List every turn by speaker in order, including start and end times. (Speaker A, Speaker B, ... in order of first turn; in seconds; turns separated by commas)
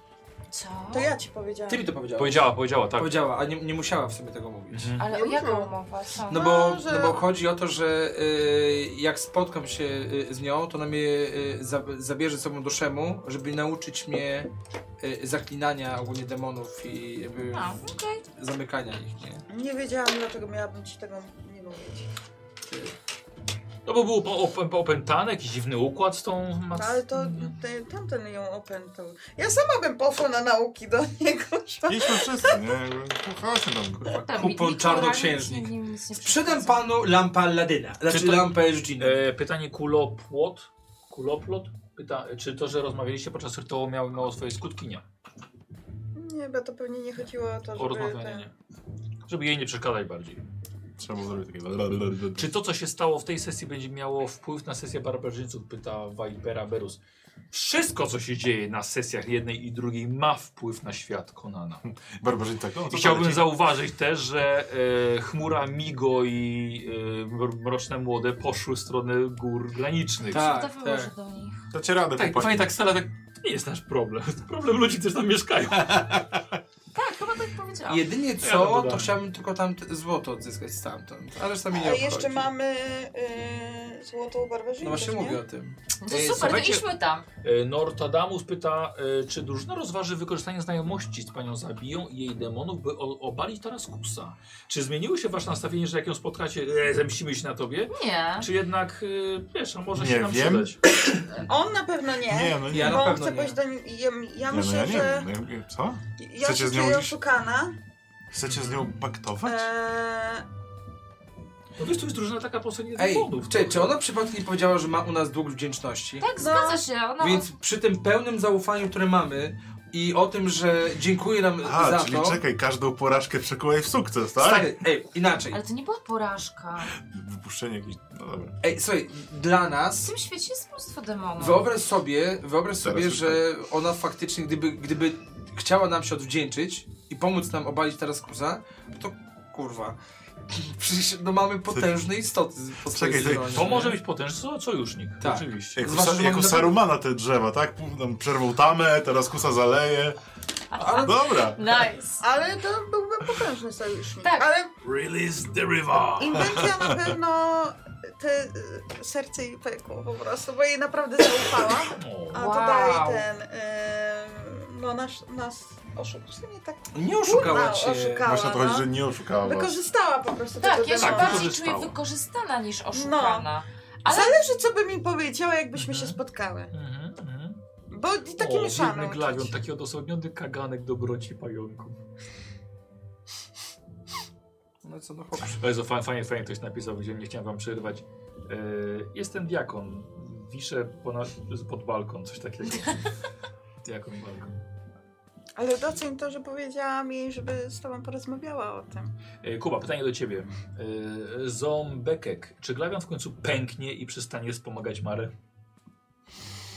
Speaker A: 0.5-1.1, Speaker B: 0.9-1.9, Speaker C: 1.7-5.0, Speaker D: 2.2-3.2, Speaker D: 4.7-5.0, Speaker A: 5.0-6.5, Speaker B: 5.1-5.7, Speaker B: 6.3-7.2, Speaker C: 6.3-14.5, Speaker C: 15.0-19.4, Speaker A: 17.5-18.2, Speaker B: 19.5-22.1, Speaker D: 23.9-27.5, Speaker B: 26.8-32.7, Speaker E: 31.9-34.1, Speaker C: 34.0-39.2, Speaker A: 34.1-36.8, Speaker D: 38.1-45.0, Speaker B: 46.1-48.5, Speaker D: 47.8-48.5, Speaker D: 49.3-50.4, Speaker E: 51.0-52.5, Speaker D: 52.4-57.0, Speaker D: 57.5-61.8, Speaker E: 62.2-63.5, Speaker D: 62.9-70.5, Speaker C: 70.3-71.1, Speaker A: 70.3-71.6, Speaker E: 71.7-72.7, Speaker D: 72.2-76.4, Speaker A: 76.9-78.1, Speaker C: 77.9-82.5, Speaker D: 78.4-79.2, Speaker B: 81.7-85.4, Speaker C: 84.8-86.7, Speaker A: 86.0-87.2, Speaker D: 86.3-86.9, Speaker D: 87.4-100.8, Speaker A: 97.9-98.5, Speaker E: 99.9-100.7, Speaker B: 101.5-105.3, Speaker E: 102.3-103.0, Speaker C: 102.7-103.6, Speaker E: 104.5-107.2, Speaker B: 106.2-107.8, Speaker E: 108.3-109.7, Speaker D: 108.5-108.9, Speaker B: 109.4-110.5, Speaker D: 111.8-114.0, Speaker C: 113.0-116.3, Speaker A: 116.2-117.5, Speaker B: 116.4-116.8, Speaker C: 117.2-122.4, Speaker E: 121.6-124.7, Speaker C: 124.4-125.6, Speaker A: 125.5-127.0, Speaker E: 127.0-128.5, Speaker C: 128.6-130.1, Speaker A: 130.0-131.7, Speaker C: 131.4-140.0, Speaker E: 132.8-133.4, Speaker C: 140.5-144.0, Speaker E: 142.9-143.7, Speaker D: 143.5-145.9, Speaker C: 145.2-146.8, Speaker E: 145.8-150.2, Speaker A: 150.7-152.2, Speaker C: 150.8-151.2, Speaker E: 150.9-151.9, Speaker B: 152.2-154.7, Speaker A: 154.2-154.5, Speaker D: 154.8-156.6, Speaker B: 156.2-171.5, Speaker E: 156.4-157.1, Speaker D: 161.9-162.5, Speaker A: 162.4-163.3, Speaker C: 166.9-168.3, Speaker E: 168.2-169.8, Speaker A: 170.6-174.4, Speaker D: 171.0-172.0, Speaker B: 172.9-173.5, Speaker B: 174.1-176.7, Speaker D: 175.7-176.2, Speaker D: 176.7-177.6, Speaker B: 177.9-179.6, Speaker D: 178.4-182.0, Speaker C: 184.8-185.6, Speaker D: 185.5-193.1, Speaker D: 193.8-194.6, Speaker B: 195.6-199.1, Speaker D: 199.4-205.3